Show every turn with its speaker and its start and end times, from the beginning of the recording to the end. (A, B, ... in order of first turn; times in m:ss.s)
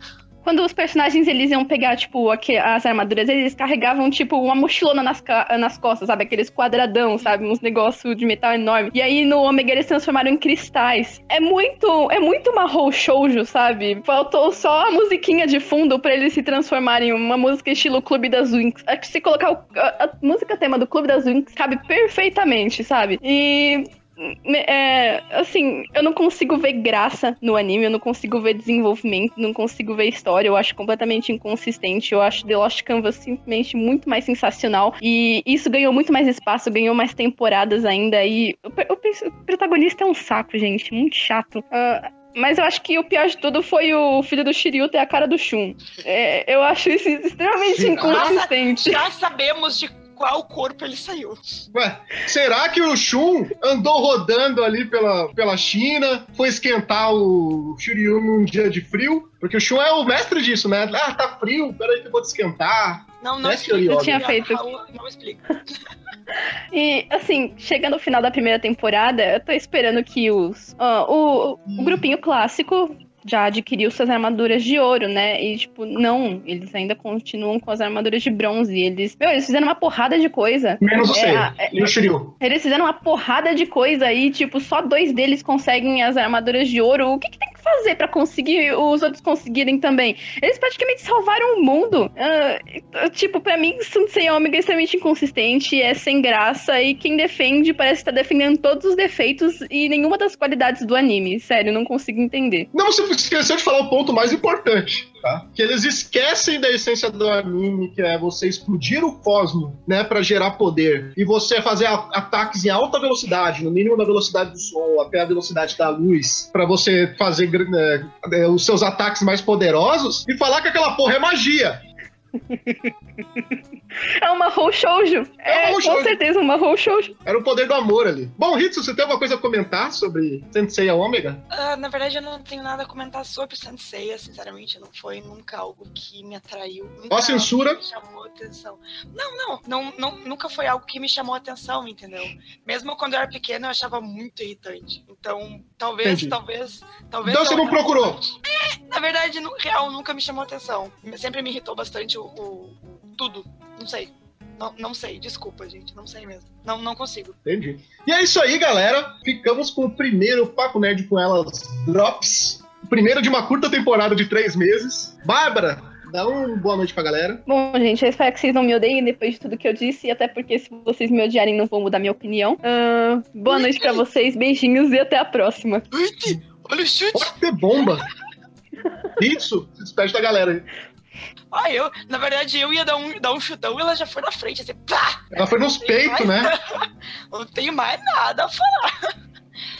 0:00.4-0:49.0 A
0:47.7-0:48.4 B
0:48.0-0:51.4 C
0:51.7-1:04.3 B
1:03.2-1:05.4 C
1:03.9-1:04.6 A
1:06.7-1:21.9 A
1:11.7-1:12.0 B
1:20.8-1:22.3 B
1:22.4-1:42.7 A
1:42.7-2:01.8 B
2:04.2-2:07.2 A
2:05.4-2:06.2 B
2:07.3-2:11.4 B
2:11.5-2:37.4 C
2:17.1-2:17.8 B
2:26.0-2:26.4 B
2:27.2-2:28.2 B
2:37.4-2:47.4 B
2:47.5-2:55.9 A
2:53.5-2:54.0 C
2:55.9-2:57.3 C
2:57.1-2:58.1 B
2:59.2-3:00.7 B
3:01.5-3:09.1 C
3:05.3-3:06.5 B